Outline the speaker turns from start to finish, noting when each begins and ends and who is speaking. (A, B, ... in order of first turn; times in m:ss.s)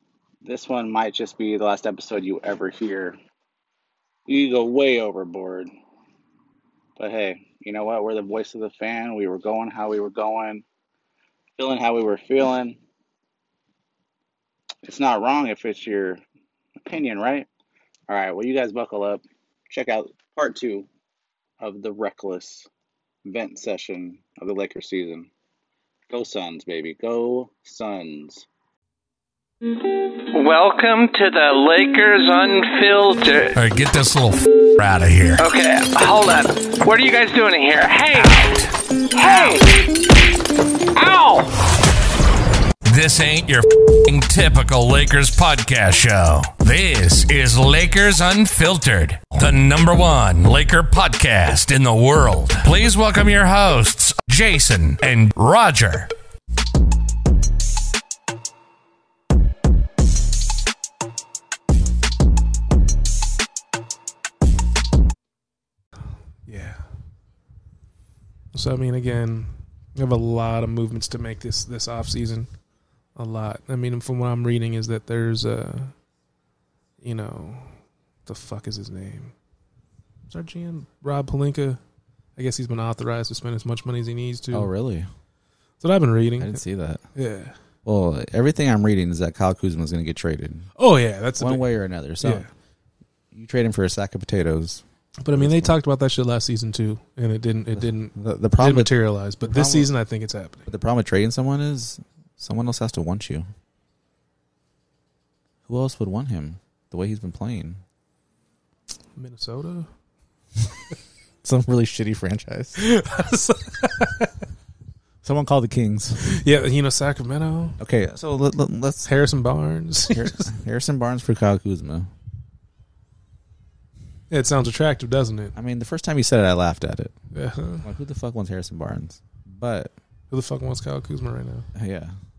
0:00.4-0:03.2 A
0:04.3-0:05.7 A
0:07.0-0:10.6 A
0:11.6-0:12.8 A
0:14.8-0:16.2 A
0:16.8-0:17.5 A
0:18.1-0:20.9 A
0:21.6-0:22.7 A
0:23.2-0:25.3 A
0:26.1-0:28.5 A
0:30.2-0:33.6 B
0:33.6-0:35.4 C
0:35.4-0:38.5 B
0:38.1-0:38.7 C
0:39.1-0:39.8 B
0:40.9-0:41.5 B
0:42.9-0:56.1 C
1:06.5-1:06.8 D
1:08.5-1:12.5 D
1:13.2-1:15.9 D
1:17.0-1:19.3 D
1:20.3-1:21.8 D
1:22.4-1:24.7 D
1:24.5-1:25.1 E
1:25.8-1:26.6 D
1:26.4-1:27.0 E
1:27.2-1:27.6 D
1:27.8-1:30.7 E
1:30.8-1:32.5 D
1:31.4-1:32.5 E
1:33.3-1:34.8 E
1:35.2-1:40.7 D
1:35.4-1:35.8 E
1:37.8-1:39.9 E
1:40.7-1:43.5 E
1:45.7-1:47.8 E
1:49.2-1:49.9 D
1:51.4-1:52.8 E
1:52.8-1:54.3 D
1:55.2-1:56.4 E
1:56.2-1:57.8 D
1:57.8-1:59.1 E
1:59.1-2:00.5 D
2:00.0-2:02.1 E
2:04.3-2:05.6 D
2:05.6-2:07.2 E
2:07.3-2:07.9 D
2:07.8-2:09.9 E
2:10.3-2:11.7 D
2:11.8-2:12.2 E